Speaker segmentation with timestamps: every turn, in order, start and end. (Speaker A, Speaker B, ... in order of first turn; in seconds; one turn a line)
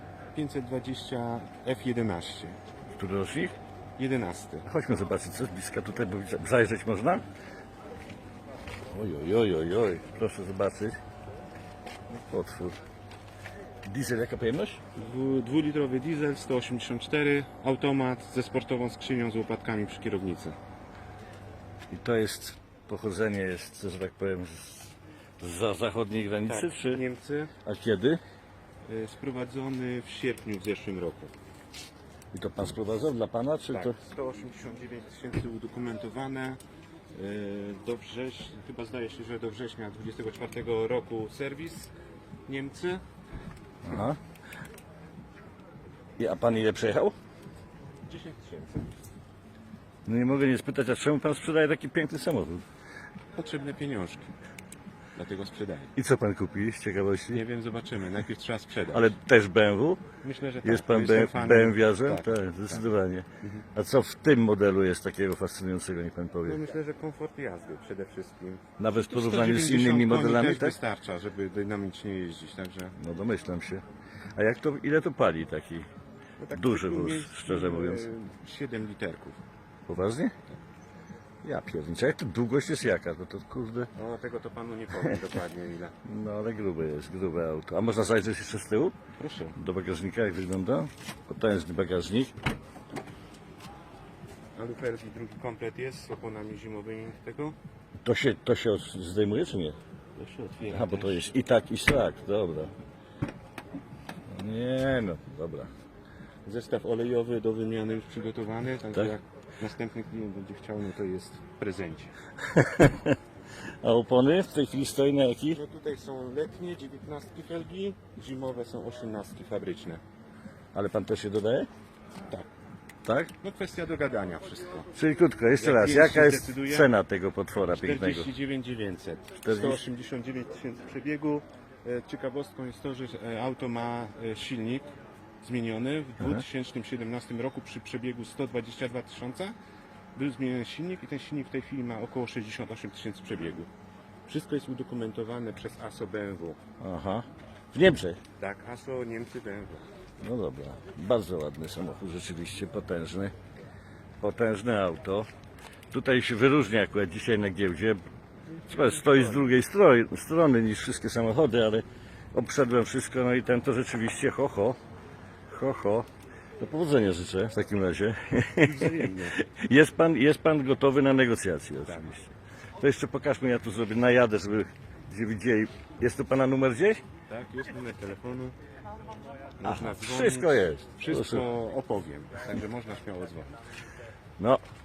Speaker A: 0.3-2.6
Speaker B: 3.0-3.5
Speaker A: 4.0-4.7
Speaker B: 4.6-7.2
Speaker B: 8.9-11.0
Speaker B: 12.1-12.8
Speaker B: 13.8-14.8
Speaker A: 14.9-20.6
Speaker B: 21.9-27.0
Speaker A: 26.5-27.5
Speaker B: 27.6-28.2
Speaker A: 28.9-31.3
Speaker B: 32.3-34.0
Speaker A: 33.7-36.6
Speaker A: 37.1-41.9
Speaker A: 42.5-43.0
Speaker B: 43.8-44.2
Speaker B: 46.2-47.1
Speaker A: 48.0-49.0
Speaker B: 50.0-52.6
Speaker A: 53.3-54.3
Speaker A: 55.2-55.9
Speaker B: 56.0-57.4
Speaker A: 57.3-59.1
Speaker B: 58.9-60.0
Speaker A: 60.2-62.8
Speaker B: 60.6-66.6
Speaker A: 66.5-72.9
Speaker B: 68.8-70.8
Speaker B: 73.0-73.8
Speaker B: 74.3-75.8
Speaker A: 76.4-79.4
Speaker B: 76.5-78.1
Speaker B: 79.9-80.3
Speaker B: 81.4-83.9
Speaker A: 83.9-85.9
Speaker B: 86.0-89.0
Speaker A: 89.2-89.5
Speaker B: 89.5-92.3
Speaker A: 94.5-97.5
Speaker B: 98.0-99.8
Speaker A: 100.2-101.2
Speaker B: 100.7-102.7
Speaker B: 104.3-105.7
Speaker A: 106.4-112.1
Speaker B: 112.4-113.2
Speaker B: 113.8-115.6
Speaker A: 115.5-120.0
Speaker B: 120.7-121.7
Speaker B: 123.0-123.3
Speaker A: 123.4-124.9
Speaker B: 125.0-128.3
Speaker A: 125.5-126.9
Speaker A: 127.6-134.9
Speaker B: 129.4-129.8
Speaker A: 135.4-139.6
Speaker A: 140.2-143.7
Speaker A: 144.2-146.6
Speaker B: 146.8-148.2
Speaker A: 148.4-149.9
Speaker B: 150.2-153.3
Speaker B: 154.2-155.3
Speaker B: 155.9-158.0
Speaker B: 158.7-164.8
Speaker B: 165.5-166.1
Speaker B: 166.6-172.2
Speaker A: 168.6-169.4
Speaker A: 171.9-172.2
Speaker B: 172.8-177.0
Speaker A: 177.3-178.6
Speaker A: 179.6-183.6
Speaker B: 179.6-181.4